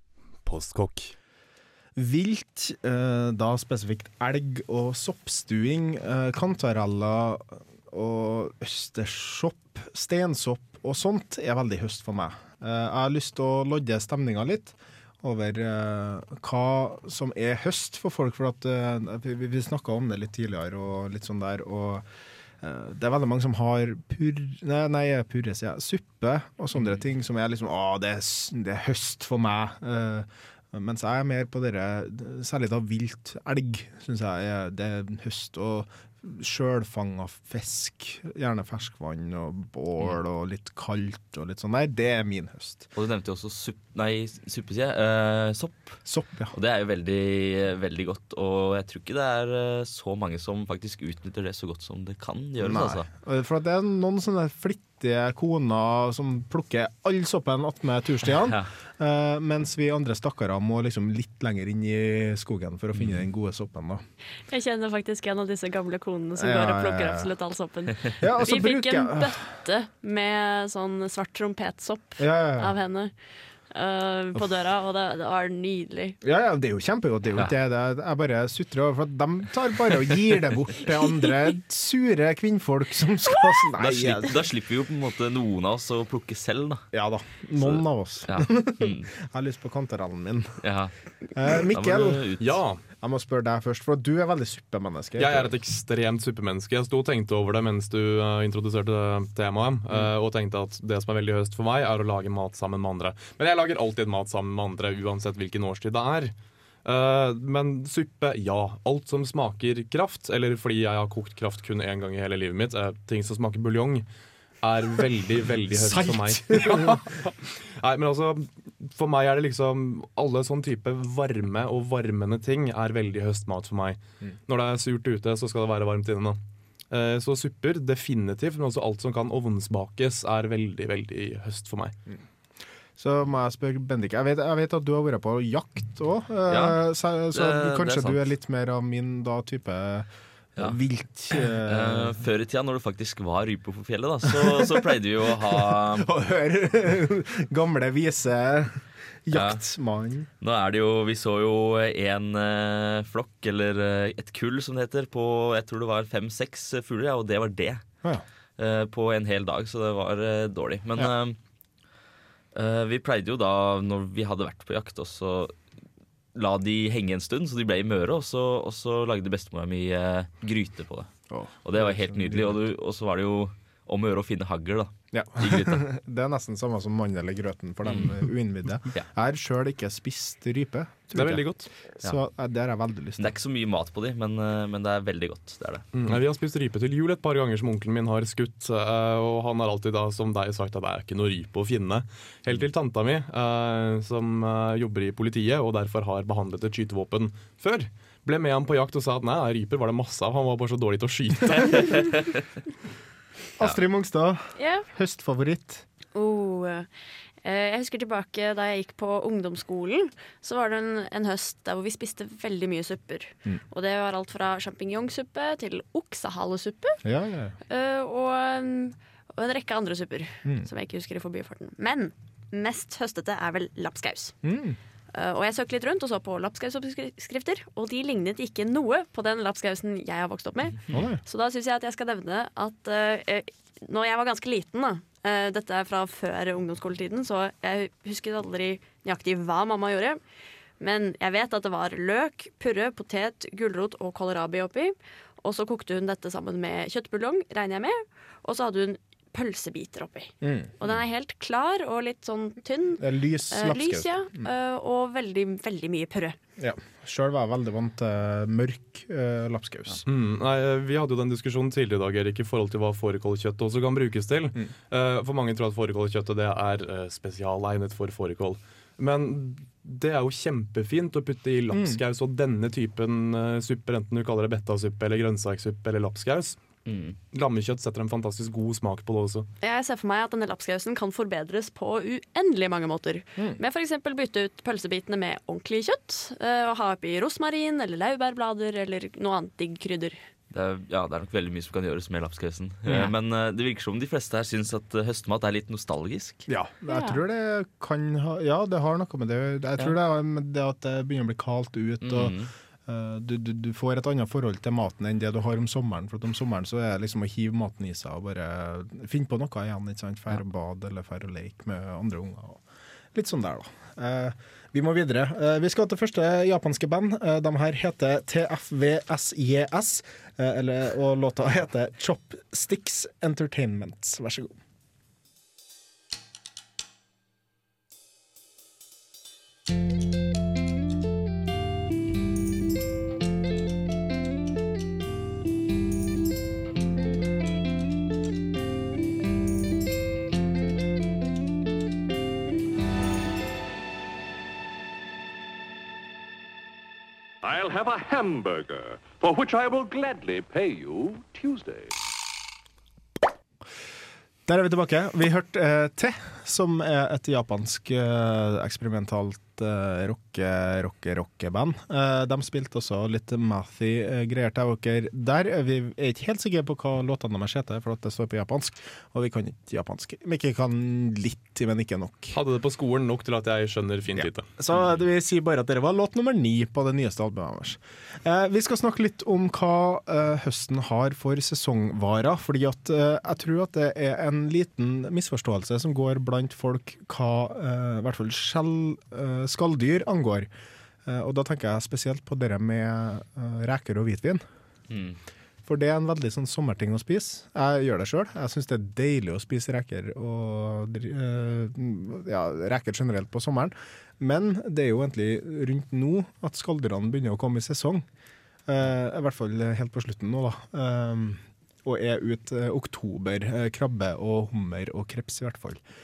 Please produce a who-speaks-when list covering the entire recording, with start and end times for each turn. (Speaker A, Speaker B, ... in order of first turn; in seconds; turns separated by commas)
Speaker A: 0.5-1.1, Speaker B: 2.0-22.1, Speaker B: 22.6-42.9, Speaker C: 43.0-46.0, Speaker B: 46.0-46.6, Speaker C: 46.5-53.1, Speaker B: 52.6-64.0, Speaker C: 58.4-58.7, Speaker C: 63.0-63.2, Speaker D: 64.5-73.1, Speaker B: 66.4-67.3, Speaker B: 68.2-69.4, Speaker B: 72.2-72.8, Speaker D: 73.7-76.2, Speaker B: 76.2-84.5, Speaker C: 83.8-86.9, Speaker B: 86.9-90.6, Speaker C: 87.6-89.1, Speaker C: 90.6-90.9, Speaker B: 91.3-92.3, Speaker C: 91.5-92.5, Speaker A: 92.4-92.8, Speaker B: 93.0-95.5, Speaker A: 95.2-106.3, Speaker A: 106.8-114.0, Speaker A: 114.6-126.4, Speaker B: 115.7-117.0, Speaker A: 126.9-131.9, Speaker B: 133.0-142.2, Speaker C: 136.5-136.8, Speaker C: 137.3-138.2, Speaker C: 141.4-146.1, Speaker B: 144.2-144.9, Speaker B: 145.5-150.3, Speaker C: 149.3-149.6, Speaker C: 150.4-157.8, Speaker C: 158.6-161.4, Speaker C: 162.5-165.6, Speaker C: 166.3-171.1, Speaker B: 171.3-172.7, Speaker C: 171.6-175.8, Speaker B: 175.1-183.3, Speaker C: 177.9-178.3, Speaker A: 181.2-181.7, Speaker C: 183.2-185.8, Speaker A: 185.9-202.2, Speaker B: 203.6-205.8, Speaker D: 204.6-204.9, Speaker D: 206.2-206.9, Speaker D: 207.4-217.0, Speaker B: 217.0-217.6, Speaker D: 217.7-224.3, Speaker B: 224.4-224.8, Speaker D: 225.1-240.2, Speaker B: 230.9-231.2, Speaker D: 240.8-256.4, Speaker B: 250.4-250.7, Speaker B: 253.0-254.5, Speaker B: 256.6-260.1, Speaker A: 260.1-276.6, Speaker B: 271.7-272.0, Speaker C: 276.9-277.2, Speaker A: 277.3-279.5, Speaker D: 279.6-290.2, Speaker C: 290.5-296.5, Speaker B: 296.5-312.6, Speaker D: 296.9-297.2, Speaker C: 302.0-302.5, Speaker B: 313.1-324.6, Speaker E: 347.4-352.0, Speaker B: 354.5-372.4, Speaker A: 372.3-374.5, Speaker B: 374.1-390.5, Speaker B: 391.1-394.4, Speaker C: 394.9-395.2, Speaker B: 395.6-408.1, Speaker B: 408.7-415.8